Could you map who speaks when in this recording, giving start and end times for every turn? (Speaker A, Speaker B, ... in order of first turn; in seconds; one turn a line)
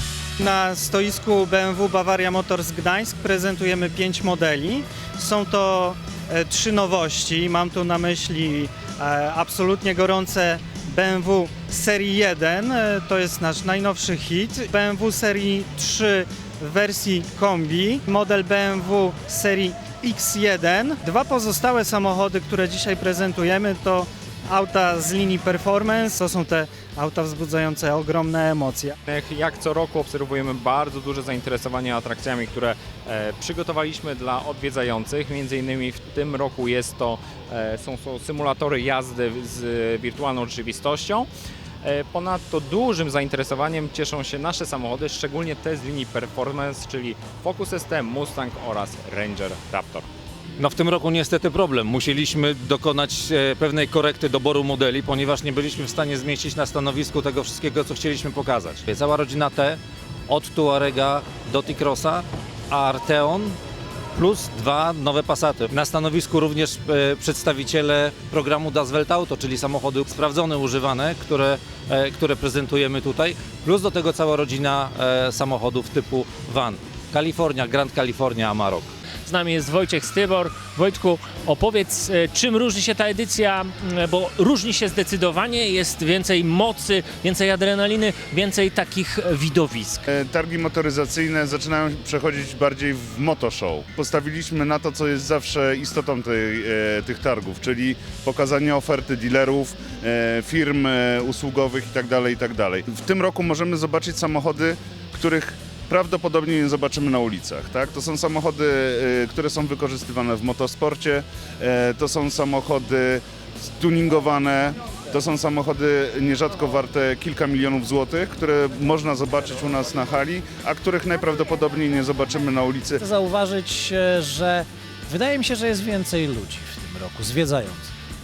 Speaker A: 0.4-28.9
Speaker B: 29.1-41.3
Speaker B: 41.8-50.1
Speaker C: 50.6-63.6
Speaker C: 64.2-78.9
Speaker D: 79.3-90.0
Speaker E: 90.1-123.0
Speaker F: 123.0-127.9